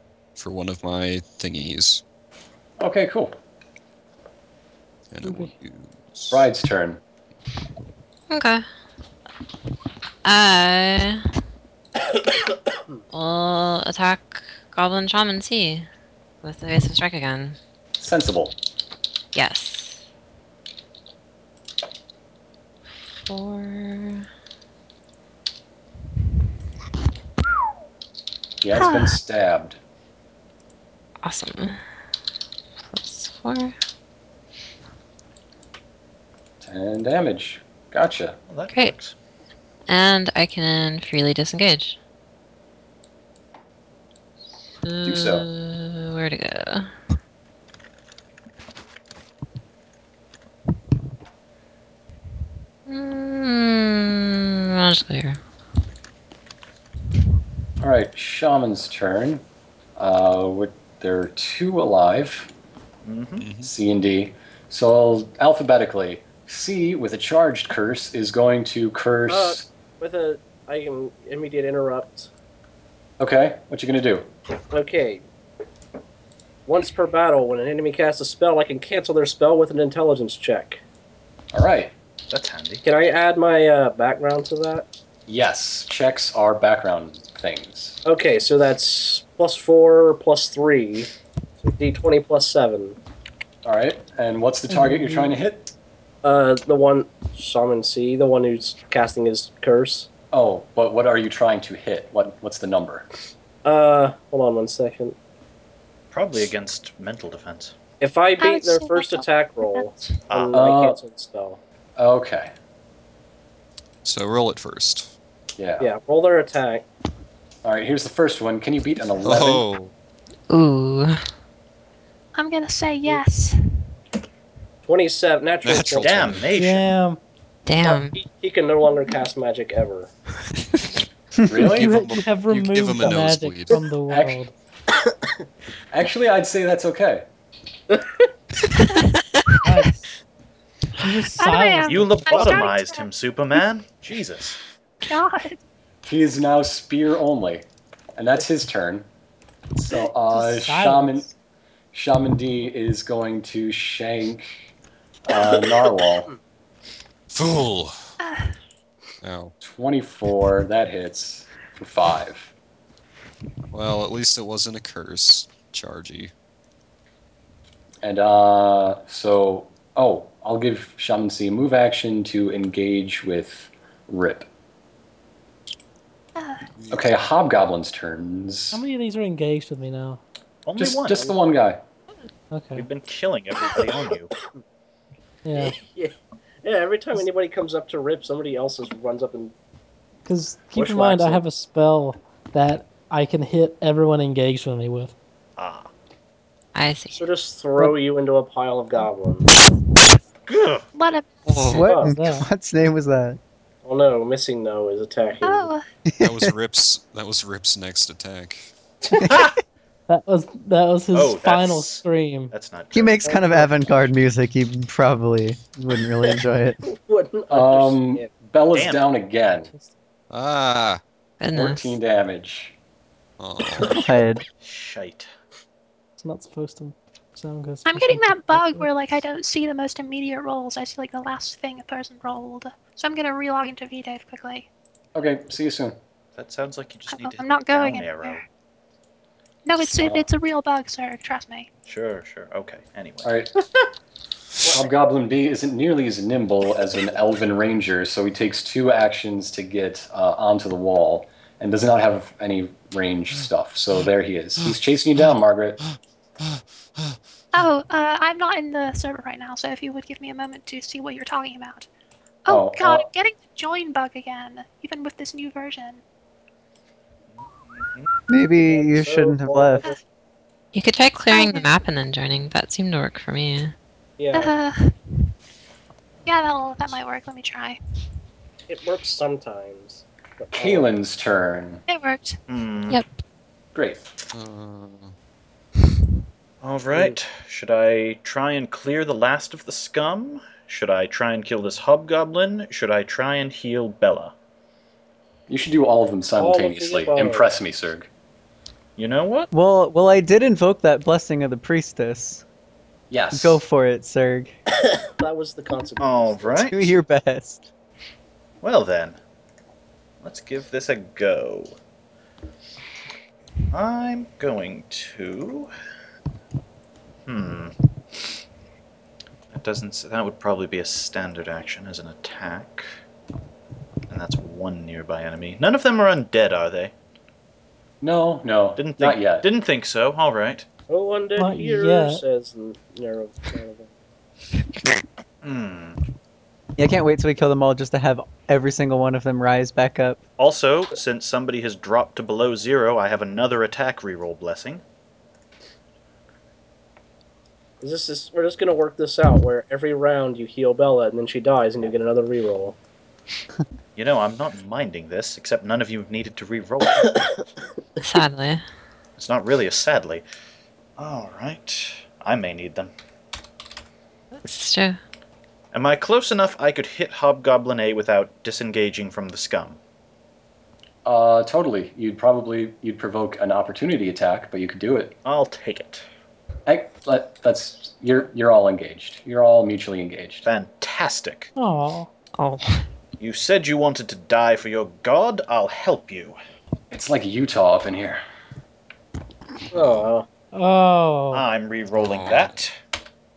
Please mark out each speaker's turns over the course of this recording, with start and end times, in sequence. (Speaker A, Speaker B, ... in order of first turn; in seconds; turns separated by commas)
Speaker A: 0.4-2.0, Speaker B: 2.8-3.4, Speaker A: 5.1-6.5, Speaker C: 5.2-5.5, Speaker B: 6.3-7.0, Speaker D: 8.3-8.7, Speaker D: 10.2-11.3, Speaker D: 13.1-15.9, Speaker D: 16.4-17.6, Speaker B: 18.0-18.6, Speaker D: 19.3-20.0, Speaker D: 23.2-24.3, Speaker B: 28.6-29.8, Speaker E: 28.7-29.2, Speaker D: 31.2-31.8, Speaker D: 32.9-33.8, Speaker B: 36.6-38.4, Speaker F: 38.5-39.1, Speaker D: 39.9-42.0, Speaker D: 44.8-46.9, Speaker B: 45.0-45.5, Speaker D: 52.9-55.4, Speaker B: 57.8-59.4, Speaker B: 60.0-62.5, Speaker F: 63.0-63.5, Speaker A: 63.4-63.7, Speaker B: 63.6-69.7, Speaker G: 69.3-72.3, Speaker B: 73.2-74.3, Speaker G: 74.7-75.2, Speaker G: 76.7-80.8, Speaker B: 81.5-82.0, Speaker F: 82.3-82.9, Speaker G: 82.8-84.9, Speaker B: 85.3-88.0, Speaker G: 88.0-91.1, Speaker G: 91.6-93.0, Speaker B: 93.7-95.7, Speaker C: 94.7-95.4, Speaker G: 96.2-100.1, Speaker B: 100.3-103.1, Speaker G: 103.6-105.2, Speaker F: 106.1-107.8, Speaker G: 108.0-111.6, Speaker E: 108.4-110.3, Speaker F: 110.3-110.5, Speaker B: 110.5-111.0, Speaker B: 112.0-112.5, Speaker A: 114.0-115.1, Speaker B: 115.6-115.9, Speaker G: 115.8-116.9, Speaker B: 117.6-119.7, Speaker A: 119.2-119.9, Speaker D: 120.5-121.2, Speaker E: 122.3-123.6, Speaker G: 124.8-126.4, Speaker A: 125.6-126.5, Speaker F: 126.0-127.0, Speaker C: 126.5-127.2, Speaker D: 127.7-128.2, Speaker G: 127.8-130.1, Speaker B: 131.5-131.9, Speaker A: 131.6-133.8, Speaker C: 131.7-134.5, Speaker B: 134.1-134.4, Speaker B: 135.9-137.3, Speaker G: 137.9-138.3, Speaker C: 139.6-140.0, Speaker E: 139.7-139.9, Speaker C: 141.0-142.5, Speaker E: 141.4-143.1, Speaker F: 141.9-144.6, Speaker E: 145.1-145.6, Speaker B: 146.1-149.1, Speaker B: 149.8-151.3, Speaker C: 150.5-151.3, Speaker B: 151.9-154.7, Speaker B: 155.3-156.3, Speaker G: 155.4-156.3, Speaker A: 157.3-158.2, Speaker E: 158.2-158.5, Speaker A: 159.2-159.5, Speaker B: 159.6-162.5, Speaker A: 163.7-166.3, Speaker B: 168.0-174.5, Speaker E: 176.4-176.7, Speaker A: 176.8-177.1, Speaker B: 176.9-178.8, Speaker C: 178.7-180.2, Speaker F: 180.7-181.2, Speaker B: 180.8-181.8, Speaker G: 181.1-181.4, Speaker C: 182.5-182.9, Speaker F: 182.8-184.3, Speaker C: 185.4-185.8, Speaker G: 185.6-189.5, Speaker C: 190.3-195.2, Speaker G: 190.8-191.4, Speaker F: 195.6-195.9, Speaker D: 196.8-197.2, Speaker G: 197.1-199.5, Speaker F: 200.5-200.9, Speaker E: 200.9-201.6, Speaker A: 201.5-201.8, Speaker H: 201.7-203.4, Speaker G: 201.8-202.1, Speaker C: 202.0-202.5, Speaker G: 203.8-205.7, Speaker E: 205.4-205.8, Speaker H: 206.1-206.5, Speaker A: 206.2-208.7, Speaker F: 209.3-209.5, Speaker C: 210.1-212.5, Speaker F: 211.1-213.4, Speaker H: 212.9-216.8, Speaker G: 213.2-213.7, Speaker G: 216.9-218.3, Speaker B: 217.5-219.7, Speaker F: 218.7-219.0, Speaker A: 220.3-221.0, Speaker D: 221.4-222.0, Speaker B: 221.5-222.8, Speaker A: 223.4-224.0, Speaker H: 223.9-224.4, Speaker F: 224.6-225.3, Speaker C: 226.2-228.9, Speaker E: 227.8-234.7, Speaker B: 235.2-236.0, Speaker F: 236.4-238.4, Speaker E: 237.1-238.4, Speaker E: 239.7-241.7, Speaker B: 239.8-240.3, Speaker F: 241.9-243.3, Speaker B: 243.2-243.5, Speaker G: 244.7-244.9, Speaker B: 244.7-255.8, Speaker A: 255.8-257.2, Speaker E: 257.5-261.9, Speaker E: 262.5-266.0, Speaker B: 262.5-263.1, Speaker F: 267.3-268.1, Speaker H: 268.3-269.9, Speaker G: 268.6-270.0, Speaker D: 270.7-273.8, Speaker E: 271.3-271.8, Speaker G: 274.2-274.5, Speaker E: 274.3-275.0, Speaker E: 276.3-277.8, Speaker G: 278.7-280.9, Speaker B: 280.5-281.8, Speaker E: 281.9-282.4, Speaker F: 282.5-283.0, Speaker B: 283.7-284.0, Speaker A: 284.3-285.1, Speaker F: 286.6-294.3, Speaker B: 295.5-298.1, Speaker G: 296.4-297.5, Speaker F: 299.0-299.5, Speaker H: 299.5-302.4, Speaker B: 303.1-303.6, Speaker H: 303.3-304.6, Speaker G: 305.1-306.7, Speaker F: 306.0-306.9, Speaker H: 306.7-307.7, Speaker F: 308.6-309.2, Speaker F: 310.2-311.8, Speaker F: 313.7-315.7, Speaker F: 317.3-318.3, Speaker F: 319.5-323.0, Speaker F: 324.1-326.9, Speaker B: 328.0-329.5, Speaker F: 328.8-330.7, Speaker G: 330.9-333.9, Speaker C: 331.4-332.2, Speaker F: 335.4-336.0, Speaker H: 336.8-340.2, Speaker F: 340.4-344.8, Speaker G: 347.8-352.8, Speaker F: 354.0-357.1, Speaker D: 358.0-358.6, Speaker F: 359.2-360.2, Speaker F: 361.0-362.9, Speaker D: 364.4-365.0, Speaker F: 365.7-369.8, Speaker B: 371.1-375.2, Speaker F: 375.2-376.1, Speaker B: 376.7-380.5, Speaker F: 380.4-381.5, Speaker C: 381.6-382.1, Speaker D: 382.4-382.9, Speaker F: 383.2-386.4, Speaker B: 386.9-388.2, Speaker G: 389.7-390.3, Speaker C: 390.5-391.4, Speaker F: 391.3-392.8, Speaker A: 392.0-392.6